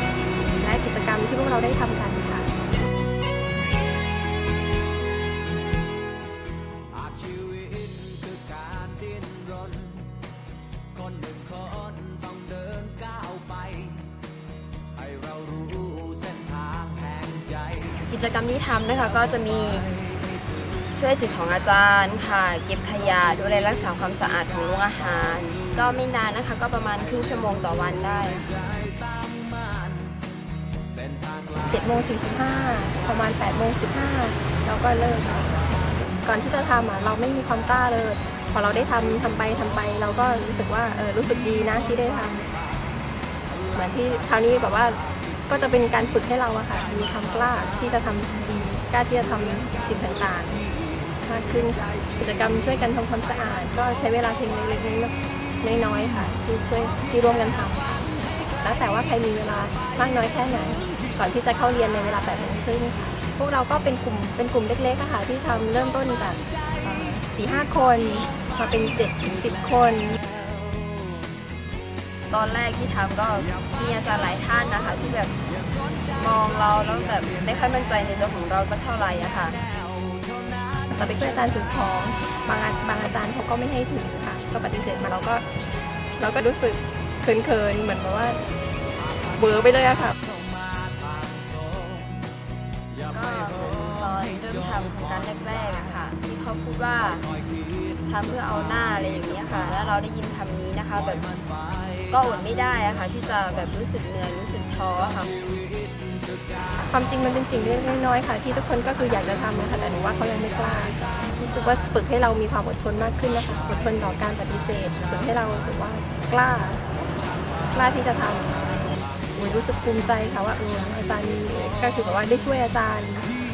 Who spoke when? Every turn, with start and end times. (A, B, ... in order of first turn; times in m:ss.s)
0:00.6-0:02.5 A
0:18.0-0:19.9 B
0:20.9-0:28.5 B
0:31.6-0:42.5 A
0:43.7-0:50.6 A
0:51.2-1:10.2 A
1:12.3-1:15.3 B
1:16.1-1:19.6 B
1:20.9-1:25.4 A
1:26.2-1:28.4 A
1:29.3-1:30.2 A
1:33.0-1:37.3 B
1:38.0-1:41.3 B
1:42.1-1:45.4 B
1:46.8-1:56.8 A
1:57.7-1:58.7 A
1:59.4-2:03.3 A